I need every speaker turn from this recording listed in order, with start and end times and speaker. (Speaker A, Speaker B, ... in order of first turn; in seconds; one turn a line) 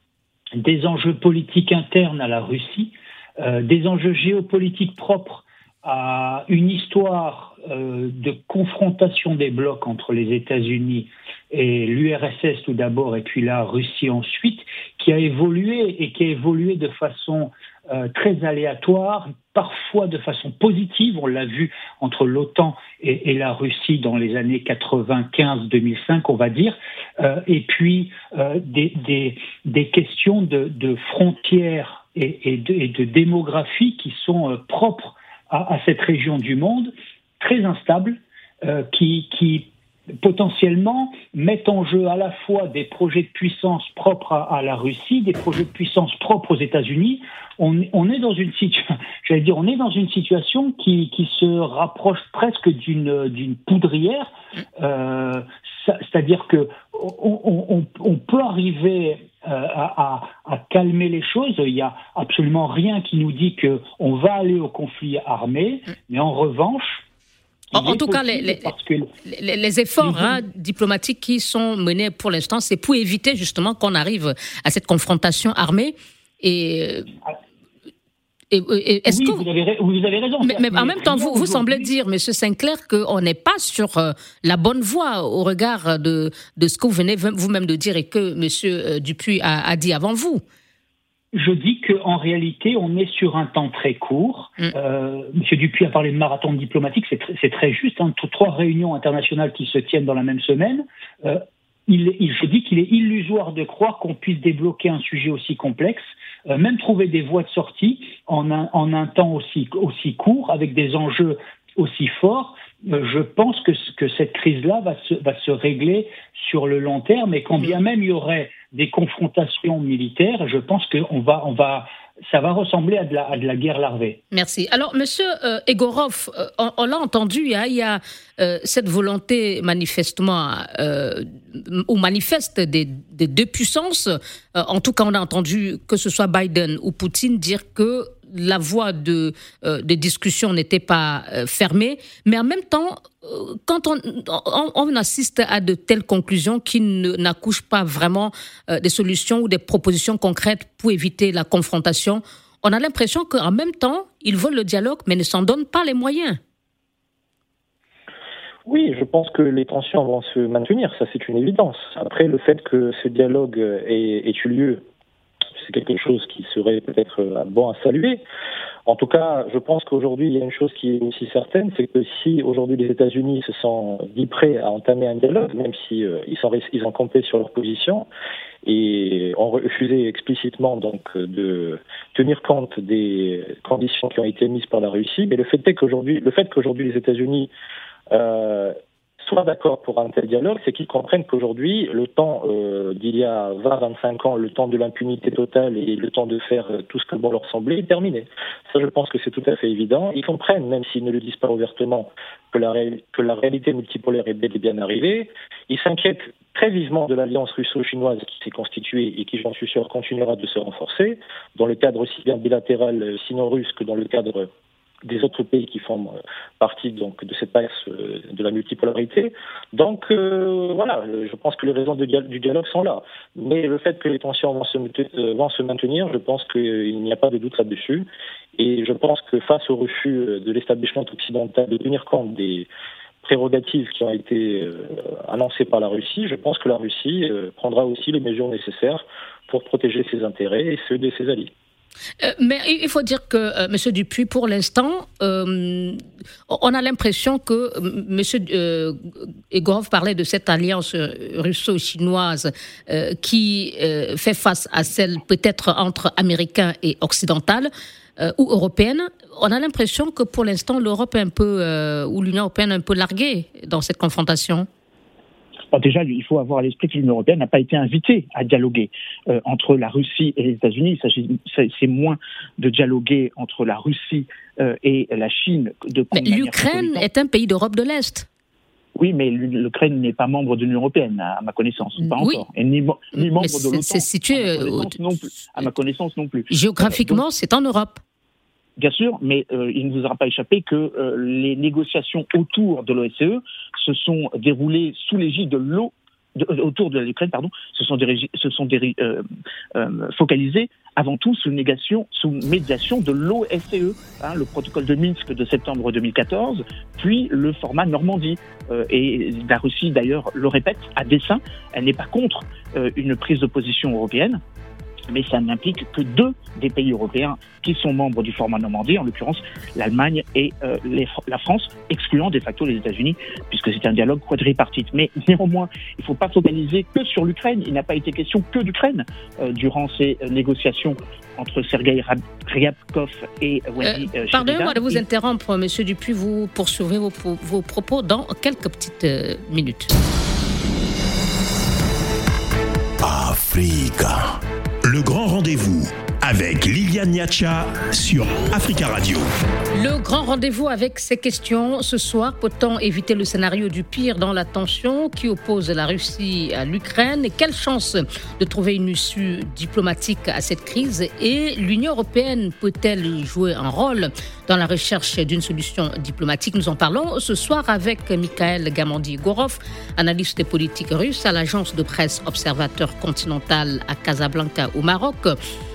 Speaker A: 0.6-39.7
Speaker A: 40.2-67.0
Speaker A: 67.7-69.1
Speaker B: 67.7-68.7
Speaker B: 69.2-77.1
Speaker A: 70.0-70.4
Speaker B: 78.5-79.4
Speaker A: 79.1-81.9
Speaker B: 80.4-90.4
Speaker A: 91.3-124.2
Speaker B: 124.3-156.4
Speaker C: 158.7-164.8
Speaker C: 165.6-168.2
Speaker C: 168.8-178.1
Speaker C: 178.6-187.5
Speaker C: 188.1-214.5
Speaker C: 215.0-232.7
Speaker C: 233.2-241.5
Speaker B: 242.2-264.7
Speaker D: 265.7-277.1
Speaker B: 276.1-278.3
Speaker D: 278.9-287.2
Speaker B: 282.0-282.4
Speaker B: 283.1-284.9
Speaker B: 286.5-288.0
Speaker D: 288.8-299.2
Speaker D: 299.7-314.4
Speaker D: 315.1-335.0
Speaker B: 333.8-339.9
Speaker E: 343.0-349.3
Speaker B: 349.7-375.4